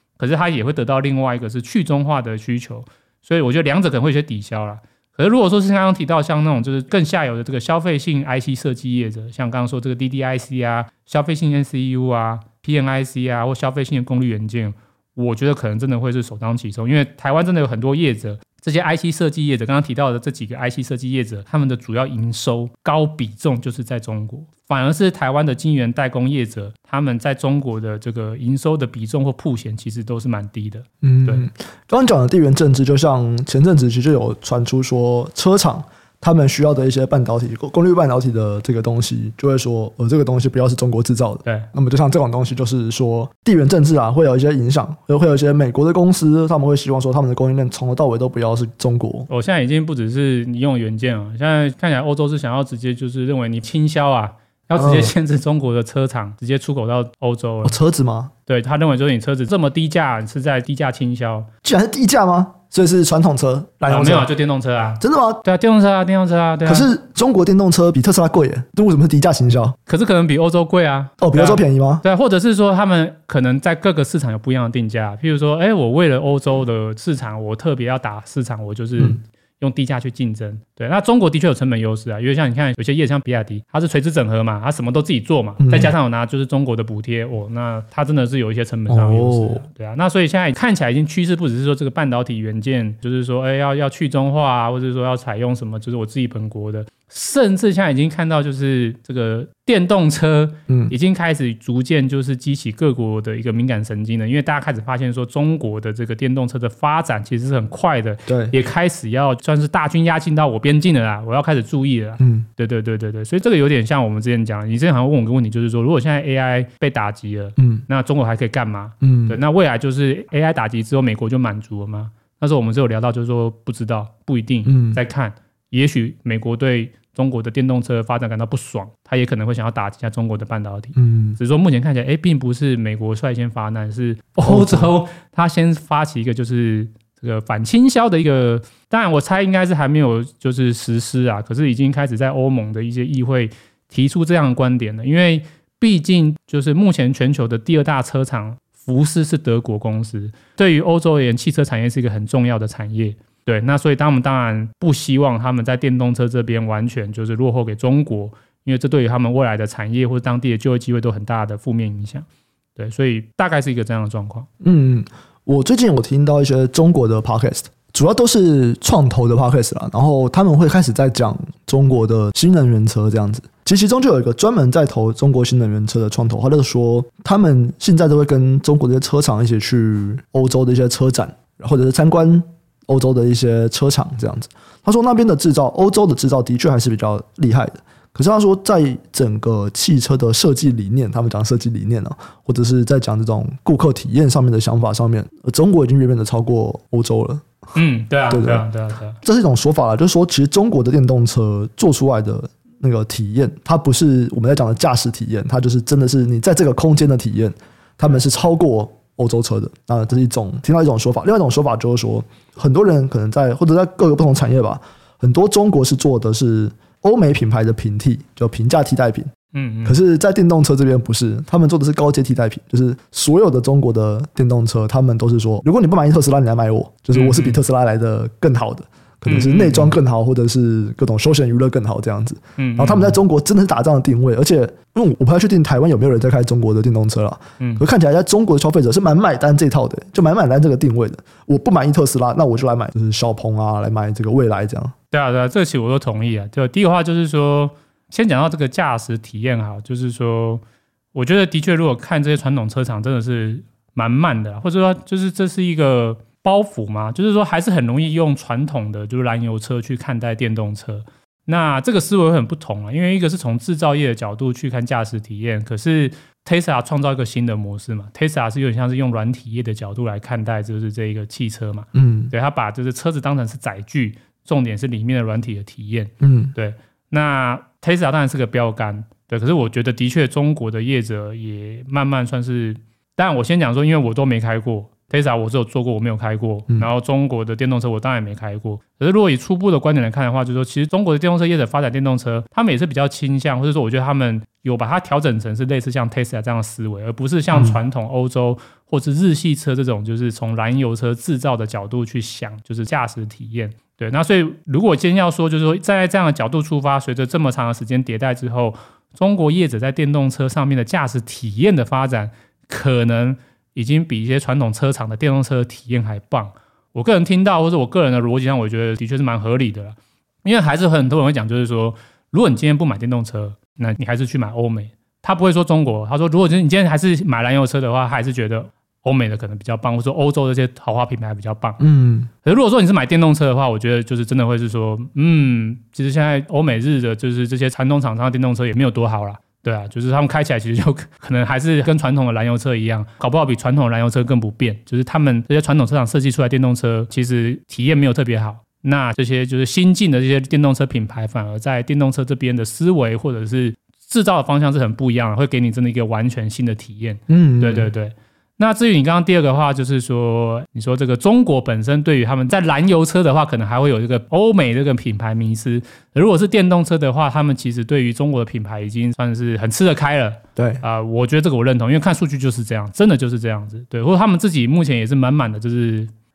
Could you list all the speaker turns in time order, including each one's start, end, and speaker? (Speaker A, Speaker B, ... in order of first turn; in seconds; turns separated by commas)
Speaker A: 0.2-31.5, Speaker B: 31.0-49.3, Speaker A: 49.3-57.8, Speaker B: 54.8-55.1, Speaker B: 57.6-58.3, Speaker A: 58.5-61.5, Speaker B: 61.6-64.3, Speaker A: 63.9-66.9, Speaker B: 65.0-65.4, Speaker B: 66.6-69.8, Speaker A: 69.9-162.2, Speaker B: 71.2-72.0, Speaker B: 85.6-85.9, Speaker B: 88.9-89.6, Speaker B: 100.7-100.9, Speaker B: 108.3-108.5, Speaker B: 112.2-112.5, Speaker B: 117.6-117.8, Speaker B: 119.0-119.4, Speaker B: 124.7-125.0, Speaker B: 130.9-131.4, Speaker B: 134.4-134.9, Speaker A: 162.8-164.5, Speaker B: 164.6-197.4, Speaker A: 197.7-199.2, Speaker B: 198.3-198.6, Speaker B: 199.2-219.3, Speaker A: 219.5-219.9, Speaker B: 219.8-244.9, Speaker A: 227.1-227.6, Speaker A: 229.2-229.9, Speaker A: 232.6-233.2, Speaker A: 245.1-250.6, Speaker A: 251.1-331.8, Speaker B: 271.9-272.3, Speaker B: 276.2-276.5, Speaker B: 331.8-332.3, Speaker A: 332.4-376.1, Speaker B: 357.3-357.9, Speaker B: 370.6-370.8